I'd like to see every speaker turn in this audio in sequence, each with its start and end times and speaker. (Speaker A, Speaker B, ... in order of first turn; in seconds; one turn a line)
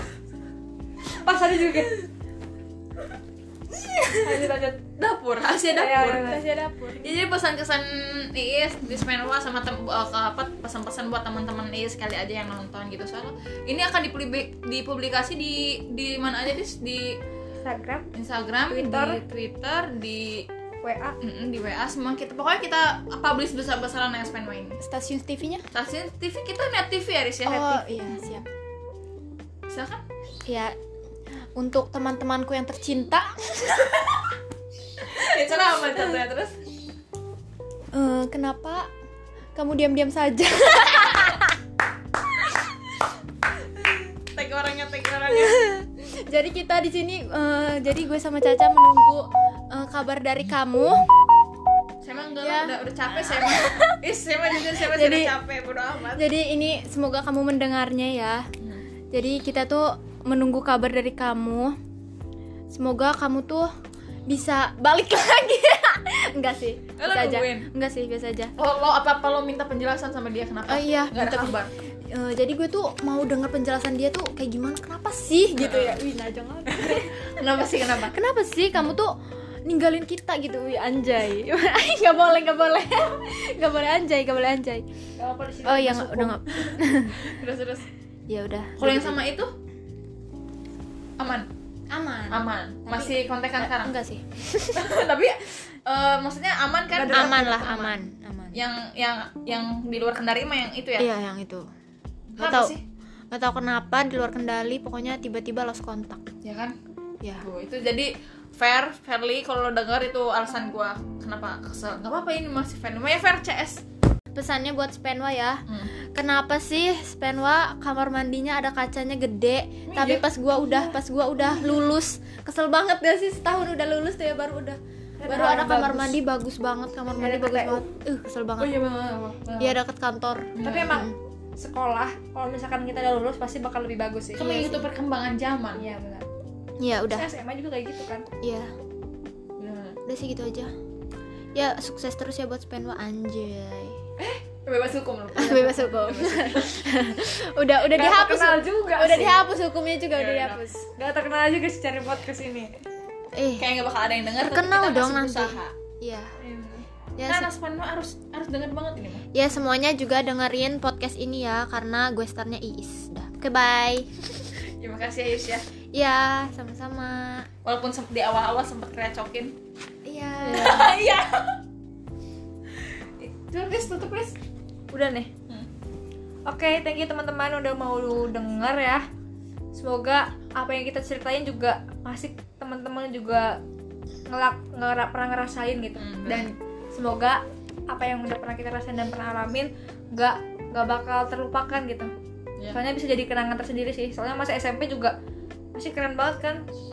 Speaker A: 1.1-2.0
Speaker B: 3.7-4.2
Speaker A: 4.2-4.8
Speaker C: 5.0-6.4
Speaker A: 5.6-6.5
Speaker B: 6.1-7.1
Speaker C: 7.0-17.2
Speaker A: 17.6-18.1
Speaker C: 18.1-20.5
Speaker A: 18.7-19.2
Speaker A: 20.8-21.2
Speaker C: 21.2-24.8
Speaker B: 24.8-25.6
Speaker C: 25.7-28.4
Speaker B: 27.4-28.5
Speaker C: 29.7-30.0
Speaker B: 30.5-30.8
Speaker B: 31.6-34.1
Speaker C: 35.0-36.6
Speaker B: 35.7-36.1
Speaker B: 37.9-38.9
Speaker B: 39.5-41.5
Speaker C: 44.3-45.6
Speaker B: 45.3-51.1
Speaker C: 52.0-56.2
Speaker B: 52.4-54.0
Speaker B: 54.6-55.4
Speaker B: 56.2-58.5
Speaker B: 59.1-61.8
Speaker B: 62.7-63.7
Speaker B: 64.3-68.5
Speaker C: 67.0-67.7
Speaker C: 68.6-71.7
Speaker B: 70.7-77.3
Speaker C: 75.6-76.0
Speaker C: 76.7-78.2
Speaker B: 78.0-84.9
Speaker A: 85.2-86.8
Speaker B: 85.6-87.2
Speaker C: 87.1-87.9
Speaker B: 88.3-89.2
Speaker C: 88.8-89.5
Speaker C: 91.2-91.5
Speaker B: 91.9-95.0
Speaker C: 92.3-93.9
Speaker C: 94.7-98.0
Speaker A: 96.9-97.7
Speaker B: 97.1-98.6
Speaker C: 98.5-101.1
Speaker B: 101.0-101.7
Speaker B: 102.4-102.8
Speaker C: 102.4-102.8
Speaker B: 103.3-106.3
Speaker C: 106.4-106.8
Speaker B: 107.2-107.5
Speaker C: 107.4-113.8
Speaker B: 114.3-128.8
Speaker C: 119.9-120.9
Speaker A: 125.2-126.2
Speaker A: 127.2-127.8
Speaker C: 128.6-129.4
Speaker A: 129.4-129.8
Speaker B: 129.6-131.2
Speaker C: 130.6-131.1
Speaker A: 130.6-134.8
Speaker C: 134.4-135.8
Speaker A: 135.8-136.3
Speaker B: 136.8-137.3
Speaker A: 137.1-138.2
Speaker B: 138.4-138.7
Speaker C: 139.6-140.0
Speaker B: 140.1-140.7
Speaker B: 141.6-144.0
Speaker C: 144.2-146.9
Speaker B: 145.4-150.9
Speaker A: 147.9-149.4
Speaker C: 150.1-150.6
Speaker A: 151.0-152.8
Speaker B: 153.3-153.7
Speaker C: 153.6-155.8
Speaker B: 154.4-156.3
Speaker A: 156.4-156.9
Speaker B: 157.2-157.5
Speaker C: 157.3-159.2
Speaker B: 159.3-164.5
Speaker C: 164.8-165.7
Speaker B: 165.9-167.5
Speaker C: 167.7-169.6
Speaker B: 170.1-170.9
Speaker A: 170.4-170.9
Speaker C: 170.5-171.6
Speaker C: 172.9-174.3
Speaker A: 174.9-175.3
Speaker A: 176.5-179.0
Speaker A: 179.7-183.6
Speaker A: 184.3-192.1
Speaker C: 186.0-186.5
Speaker A: 192.7-195.2
Speaker A: 195.8-196.6